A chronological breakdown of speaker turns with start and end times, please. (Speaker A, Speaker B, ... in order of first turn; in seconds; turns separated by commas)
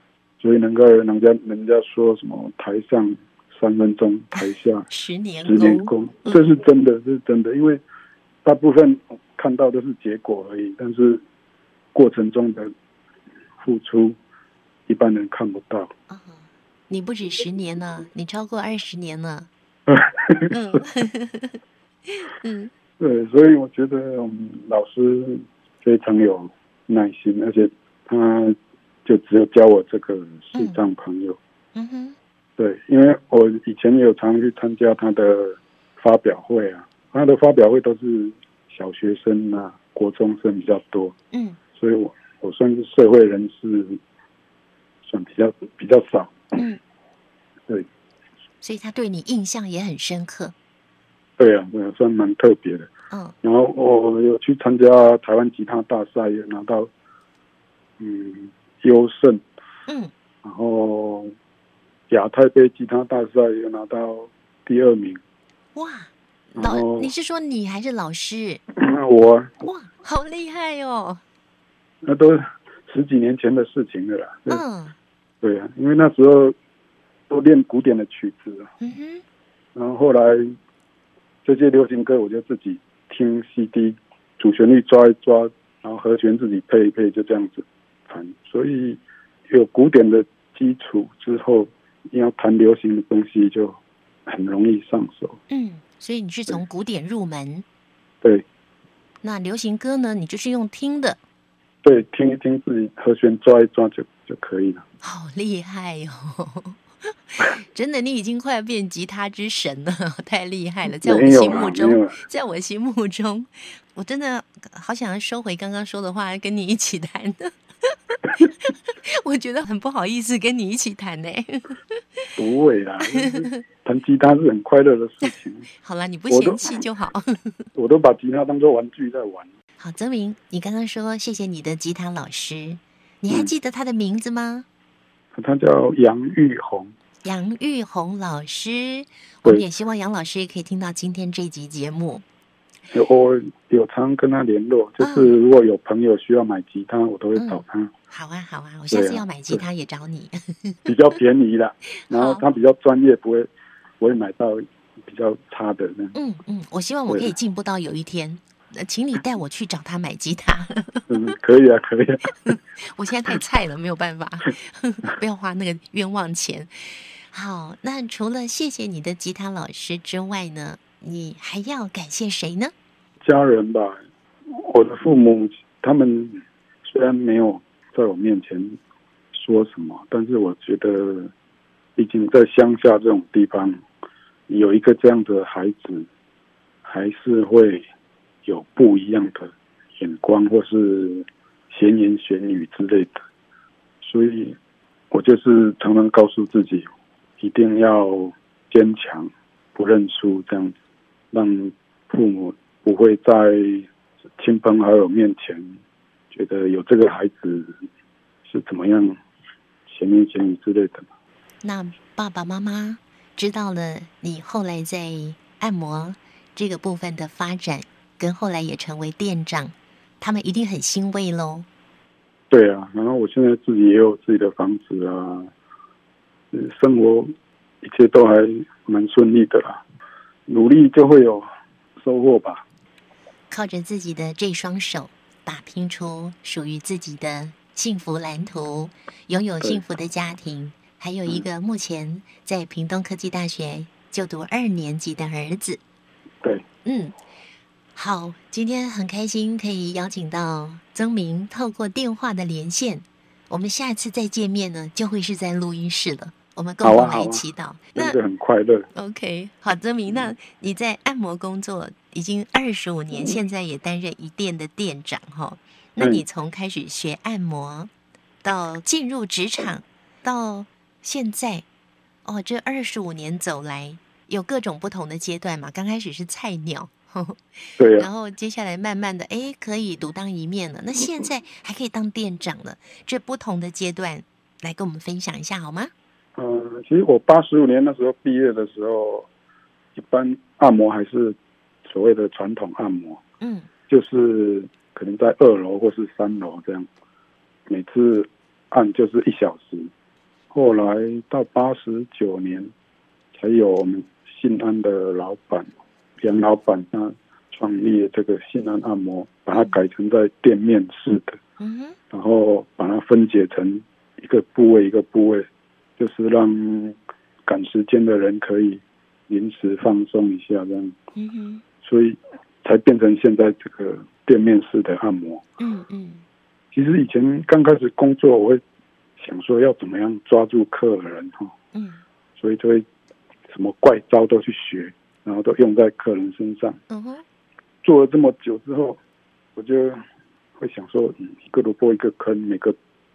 Speaker A: 0.4-4.9, Speaker B: 4.9-6.4, Speaker A: 5.4-7.8, Speaker A: 8.4-11.2, Speaker A: 11.9-12.7, Speaker A: 13.6-14.2, Speaker A: 14.9-15.9, Speaker B: 16.1-19.5, Speaker A: 19.9-20.8, Speaker B: 20.5-22.7, Speaker A: 23.0-31.4, Speaker B: 31.8-32.2, Speaker A: 32.6-41.1, Speaker B: 41.3-41.6, Speaker A: 41.8-44.0, Speaker A: 45.1-46.6, Speaker B: 48.6-50.5, Speaker A: 51.4-52.9, Speaker A: 53.4-56.9, Speaker A: 58.0-59.4, Speaker B: 59.9-60.1, Speaker A: 60.4-61.3, Speaker A: 62.1-65.2, Speaker B: 65.8-68.6, Speaker A: 66.6-67.1, Speaker A: 68.7-69.5, Speaker B: 69.6-71.2, Speaker A: 72.0-74.6, Speaker B: 74.5-75.0, Speaker A: 75.4-76.5, Speaker A: 77.3-78.7, Speaker B: 78.8-79.2, Speaker A: 79.8-80.5, Speaker A: 81.5-95.4, Speaker B: 95.5-97.6, Speaker B: 99.2-101.2, Speaker A: 101.8-104.8, Speaker B: 105.0-122.0, Speaker A: 111.0-112.2, Speaker A: 122.4-125.7, Speaker B: 123.1-123.5, Speaker B: 125.8-127.6, Speaker A: 126.3-126.7, Speaker A: 127.8-129.5, Speaker B: 129.8-134.7, Speaker A: 135.3-136.9, Speaker B: 137.2-142.2, Speaker A: 142.9-147.9, Speaker B: 145.0-145.3, Speaker B: 147.4-150.9, Speaker A: 148.9-149.6, Speaker A: 150.9-153.5, Speaker B: 152.1-152.4, Speaker A: 154.0-156.2, Speaker B: 156.1-161.1, Speaker A: 161.1-162.3, Speaker B: 162.5-172.7, Speaker A: 173.2-174.0, Speaker A: 174.5-178.8, Speaker A: 179.3-181.3, Speaker A: 182.0-183.8, Speaker A: 184.5-186.1, Speaker A: 186.8-187.9, Speaker A: 188.5-193.2, Speaker A: 194.0-194.6, Speaker A: 195.1-196.9, Speaker A: 197.4-200.7, Speaker A: 201.3-203.9, Speaker A: 204.4-205.8, Speaker A: 206.3-207.7, Speaker A: 208.4-209.2, Speaker A: 209.9-211.1, Speaker B: 211.6-221.7, Speaker A: 222.5-225.5, Speaker A: 226.5-227.3, Speaker A: 227.8-229.8, Speaker A: 230.5-231.5, Speaker A: 232.0-232.6, Speaker B: 233.5-245.8, Speaker B: 246.8-247.1, Speaker B: 247.9-258.2, Speaker A: 256.8-257.4, Speaker A: 258.0-258.9, Speaker B: 258.9-267.9, Speaker A: 266.0-266.2, Speaker B: 268.4-271.6, Speaker B: 272.2-285.9, Speaker A: 277.8-278.1, Speaker A: 286.4-289.3, Speaker A: 289.9-293.2, Speaker B: 293.4-293.7, Speaker A: 293.9-296.9, Speaker A: 297.7-299.9, Speaker A: 300.5-302.7, Speaker A: 303.3-305.7, Speaker A: 306.2-311.4, Speaker B: 311.6-312.0, Speaker A: 312.1-315.5, Speaker A: 316.0-317.0, Speaker A: 317.5-320.9, Speaker B: 321.1-321.6, Speaker A: 321.8-325.4, Speaker B: 325.6-326.2, Speaker A: 326.7-328.6, Speaker A: 329.2-331.5, Speaker B: 331.7-332.0, Speaker A: 332.4-332.9, Speaker A: 333.5-336.8, Speaker B: 336.9-337.2, Speaker A: 337.8-339.0, Speaker A: 339.6-340.0, Speaker A: 340.6-342.8